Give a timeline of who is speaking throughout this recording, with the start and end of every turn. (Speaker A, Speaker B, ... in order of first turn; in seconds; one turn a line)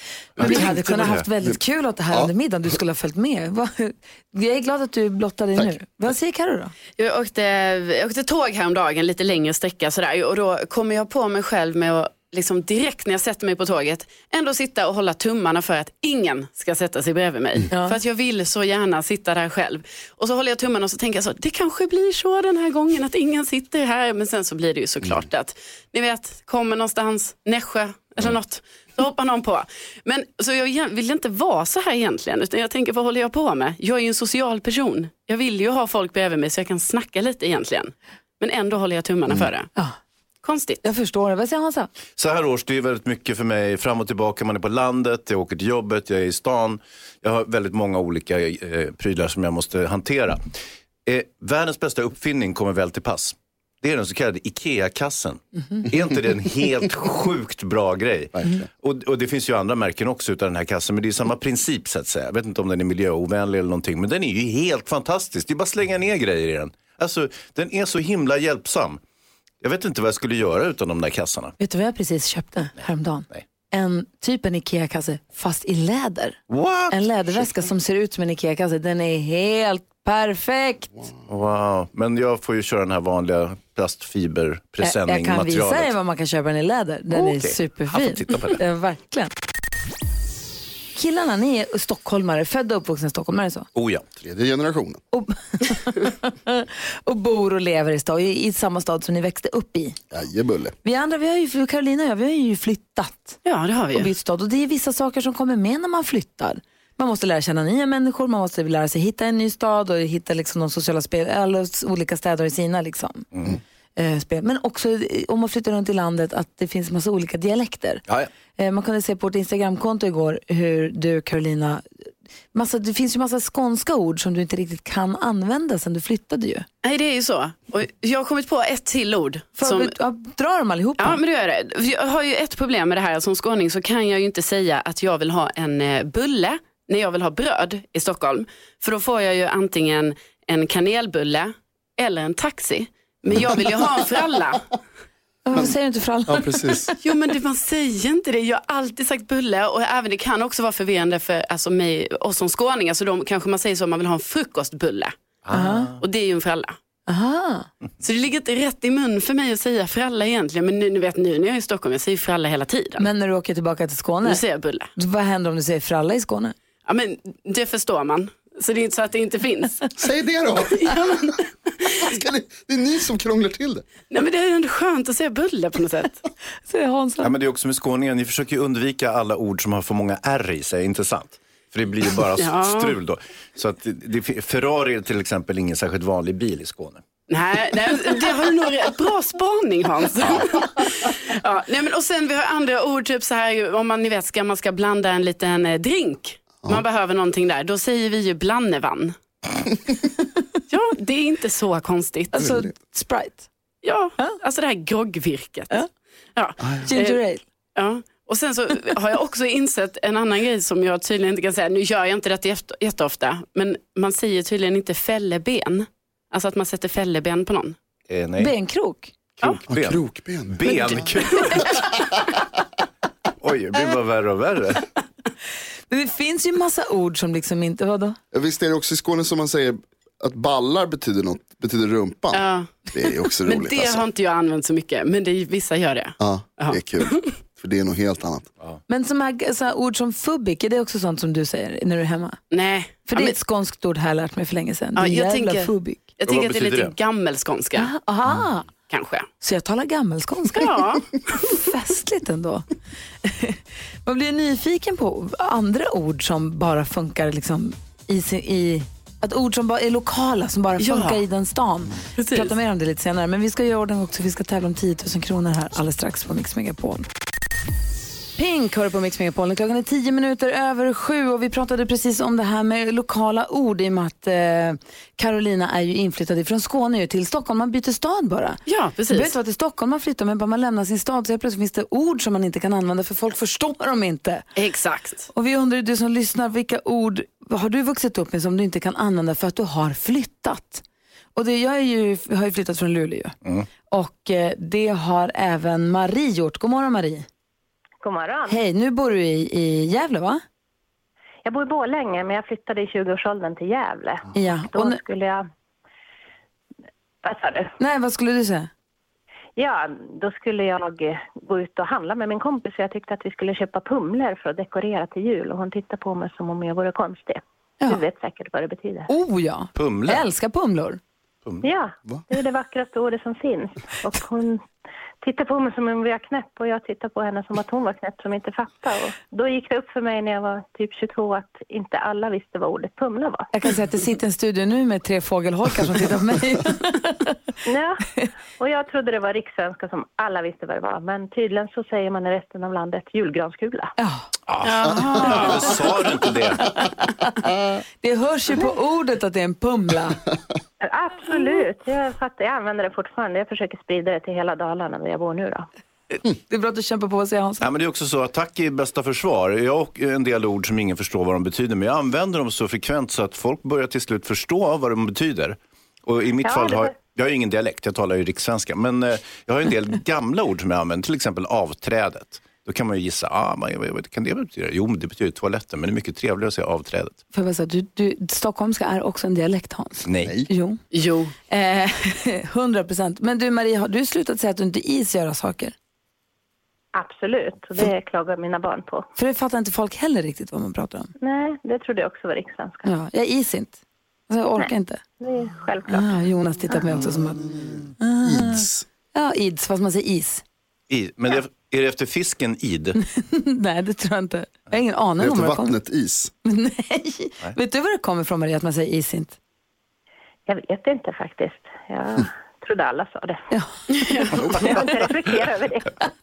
Speaker A: 0.4-1.2
Speaker B: 0.4-6.7
Speaker C: 0.4-0.7
Speaker D: 7.0-39.7
Speaker D: 40.4-40.8
Speaker B: 40.8-41.9
Speaker A: 42.2-50.4
Speaker A: 51.1-69.0
Speaker C: 58.4-58.6
Speaker A: 69.6-71.5
Speaker B: 71.6-76.4
Speaker A: 76.5-77.4
Speaker B: 76.9-80.9
Speaker A: 81.3-85.9
Speaker B: 84.8-89.3
Speaker A: 87.1-88.6
Speaker B: 91.0-93.7
Speaker A: 93.8-94.1
Speaker C: 94.2-95.0
Speaker B: 95.1-100.0
Speaker C: 100.1-100.7
Speaker B: 100.8-103.4
Speaker D: 103.5-104.1
Speaker B: 103.9-113.3
Speaker B: 114.0-118.0
Speaker B: 118.6-121.8
Speaker B: 122.5-126.7
Speaker D: 126.8-129.9
Speaker B: 129.6-131.2
Speaker D: 131.0-144.7
Speaker B: 145.5-147.0
Speaker C: 146.3-146.9
Speaker D: 147.0-155.2
Speaker A: 155.4-156.0
Speaker B: 155.5-155.9
Speaker D: 156.0-156.8
Speaker B: 157.1-157.7
Speaker D: 158.0-163.1
Speaker B: 163.0-164.4
Speaker D: 164.2-164.9
Speaker B: 164.9-166.6
Speaker D: 166.9-169.9
Speaker C: 170.0-171.2
Speaker D: 170.8-172.1
Speaker C: 172.0-173.8
Speaker D: 174.1-176.2
Speaker B: 176.7-177.3
Speaker A: 177.2-187.0
Speaker D: 182.4-182.9
Speaker D: 187.3-199.2
Speaker D: 200.7-202.4
Speaker B: 202.3-203.5
Speaker C: 202.4-202.7
Speaker D: 203.8-205.8
Speaker D: 206.4-207.2
Speaker B: 206.9-207.4
Speaker D: 207.8-217.8
Speaker A: 218.1-218.5
Speaker B: 218.4-219.1
Speaker A: 219.4-221.9
Speaker C: 219.7-221.1
Speaker D: 221.4-221.6
Speaker A: 223.4-224.8
Speaker B: 225.9-228.2
Speaker C: 228.3-234.0
Speaker D: 232.3-232.7
Speaker D: 233.4-237.2
Speaker C: 236.2-238.5
Speaker B: 238.9-242.4
Speaker D: 242.5-243.4
Speaker B: 243.1-246.0
Speaker D: 245.0-247.9
Speaker A: 246.3-246.9
Speaker B: 247.8-248.7
Speaker D: 248.9-249.3
Speaker B: 249.4-250.7
Speaker D: 250.6-251.2
Speaker B: 251.3-252.7
Speaker B: 253.2-267.1
Speaker D: 260.8-261.2
Speaker D: 262.2-262.5
Speaker B: 268.4-284.5
Speaker D: 278.7-279.3
Speaker D: 284.6-285.3
Speaker B: 285.3-290.8
Speaker B: 291.4-293.4
Speaker B: 293.9-297.3
Speaker E: 298.0-298.6
Speaker B: 298.5-300.4
Speaker E: 301.4-305.5
Speaker B: 304.3-305.0
Speaker E: 307.2-307.7
Speaker B: 307.8-308.7
Speaker E: 309.6-319.1
Speaker B: 319.1-321.0
Speaker A: 319.8-320.2
Speaker E: 321.6-324.7
Speaker E: 325.2-333.5
Speaker B: 333.5-337.4
Speaker E: 337.7-338.1
Speaker E: 338.6-343.9
Speaker B: 344.0-344.3
Speaker A: 344.5-346.7
Speaker D: 344.6-345.8
Speaker B: 346.6-350.2
Speaker E: 350.8-355.7
Speaker B: 356.1-357.7
Speaker A: 357.6-377.2
Speaker E: 366.4-366.9
Speaker B: 377.3-380.8
Speaker A: 380.1-380.4
Speaker C: 380.2-380.5
Speaker D: 380.9-381.3
Speaker B: 381.5-385.7
Speaker E: 386.9-389.1
Speaker B: 389.2-391.1
Speaker E: 391.2-392.9
Speaker B: 392.9-395.0
Speaker E: 395.2-396.1
Speaker B: 395.9-400.4
Speaker C: 398.2-398.9
Speaker A: 400.9-403.0
Speaker B: 403.0-405.8
Speaker C: 405.2-406.3
Speaker B: 406.4-409.4
Speaker E: 410.5-413.4
Speaker D: 413.9-414.4
Speaker C: 414.4-414.7
Speaker E: 414.4-416.0